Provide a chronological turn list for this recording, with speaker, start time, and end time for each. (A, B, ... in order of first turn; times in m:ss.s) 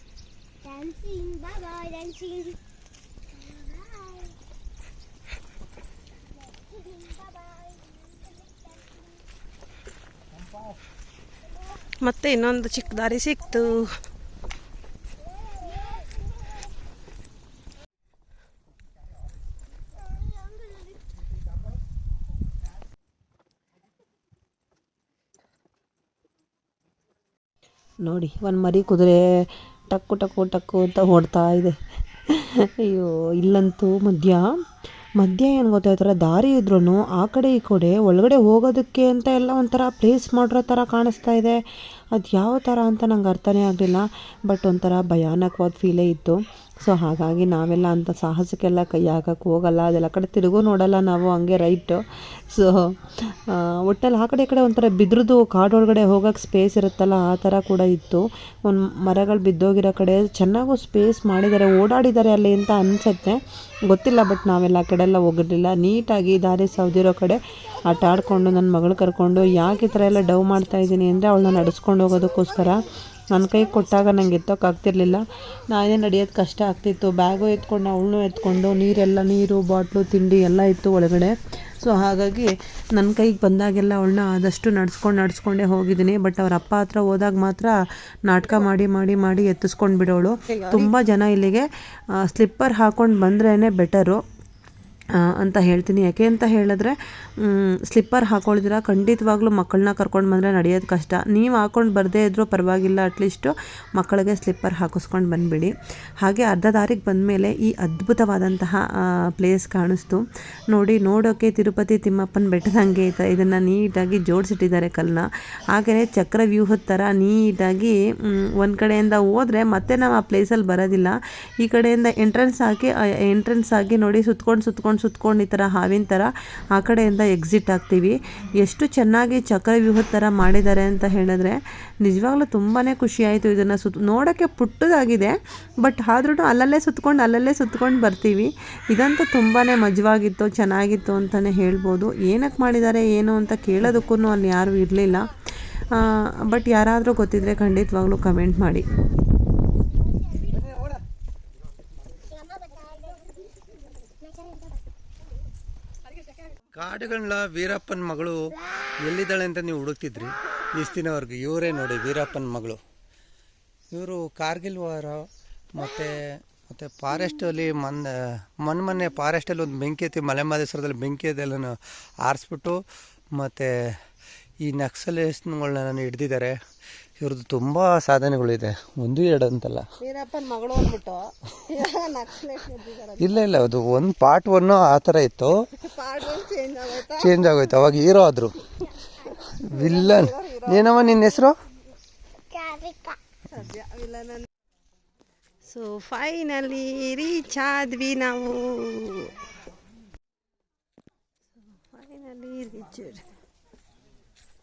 0:12.0-0:13.9 A
0:28.0-0:31.8 B
0:32.3-0:34.5 B
0:35.2-0:41.6 B
0:42.1-1:34.2 B
1:30.5-1:30.9 A
1:35.2-2:25.3 B
2:25.9-2:28.8 B
2:36.7-2:42.8 C
2:43.9-2:52.8 C
2:53.3-2:54.0 C
2:54.6-2:56.6 C
2:57.2-2:59.9 C
3:00.0-3:03.3 A
3:03.2-3:05.7 C
3:05.7-3:07.3 A
3:06.8-3:08.7 C
3:09.4-3:11.5 C
3:09.7-3:10.8 A
3:12.5-3:14.4 A
3:15.6-3:19.3 A
3:21.8-3:23.2 A